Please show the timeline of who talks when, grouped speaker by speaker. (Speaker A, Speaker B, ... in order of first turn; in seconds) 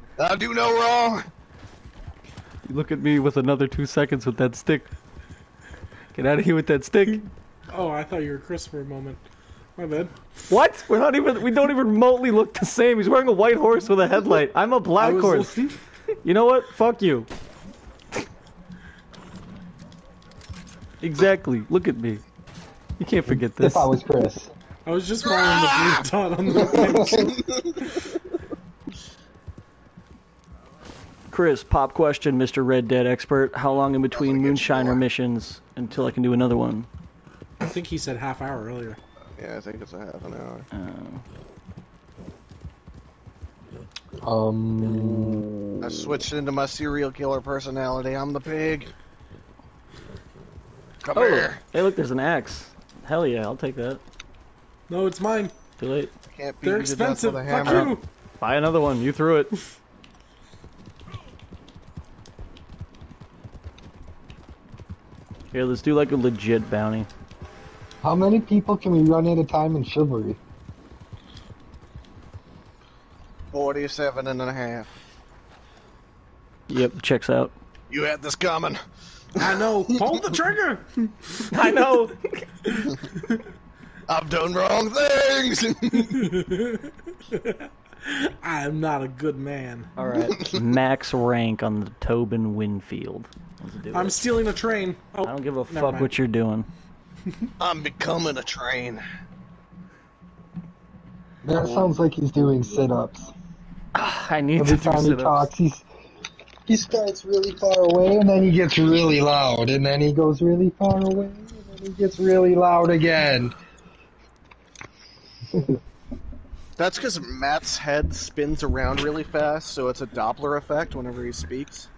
Speaker A: 0.2-1.3, 25.3-26.0, 26.6-27.8, 34.1-35.0, 39.4-40.7, 45.8-48.9, 51.0-51.6, 56.2-57.9, 73.5-74.9, 77.9-78.8, 79.3-79.6, 84.1-86.3, 90.3-90.6, 97.6-99.0, 116.8-121.9
Speaker B: 2.7-4.9, 6.1-7.3, 10.5-15.6, 16.2-17.3, 21.0-22.2, 23.0-23.9, 31.3-36.9, 40.7-41.2, 51.1-54.0, 55.8-56.1, 57.6-59.6, 65.5-67.1, 76.7-77.5, 81.5-82.8, 90.0-94.5, 95.2-96.7, 103.9-105.5
Speaker C: 7.7-9.2, 9.8-10.1, 15.0-15.7, 24.9-27.3, 37.6-39.0, 54.9-55.5, 56.6-58.0, 79.4-82.0, 82.7-83.4, 86.1-89.9, 93.9-96.1
Speaker D: 23.3-24.5, 26.7-27.3, 44.2-45.5, 68.0-70.4, 101.4-103.3, 104.6-105.8, 106.7-113.5, 115.5-115.8